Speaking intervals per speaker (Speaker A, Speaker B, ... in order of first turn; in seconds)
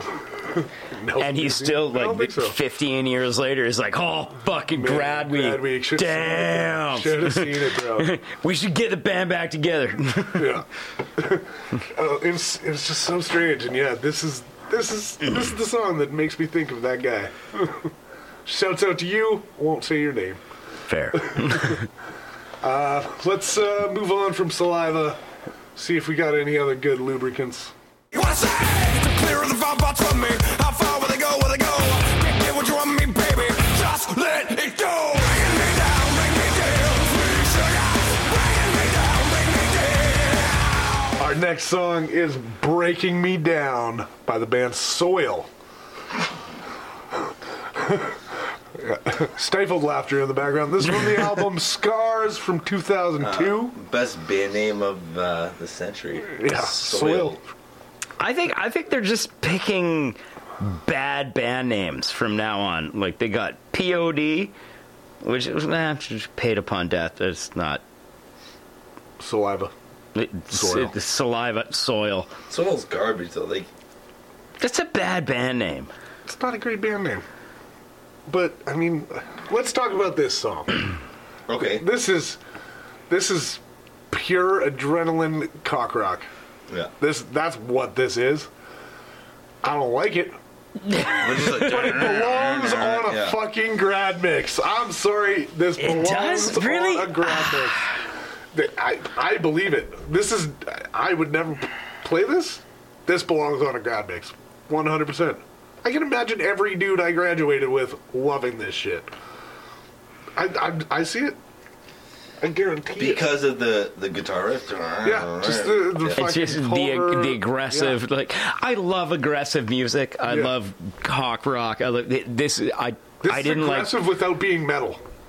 Speaker A: 0.5-2.6, 4.7-8.2, 10.3-17.9, 18.4-20.4, 21.3-21.8, 22.6-25.2, 25.8-27.7, 41.2-45.5, 47.8-48.2, 48.7-53.8, 56.3-57.4, 69.2-69.7, 70.5-70.9, 76.3-77.2, 78.3-80.8, 81.8-82.4, 83.1-86.3, 87.0-88.5, 89.6-90.4, 91.3-97.9, 98.5-109.1, 110.4-111.4, 112.4-113.3, 115.0-118.0, 120.3-120.5, 123.2-125.0
Speaker B: 1.2-10.6, 20.9-21.9, 58.2-64.5, 65.2-67.8, 70.2-72.3, 74.6-75.9, 90.9-91.6, 95.8-97.9, 116.1-124.0
Speaker C: 28.1-41.1
Speaker D: 53.2-57.4, 72.5-73.7, 81.5-81.9, 91.2-93.4, 113.0-116.2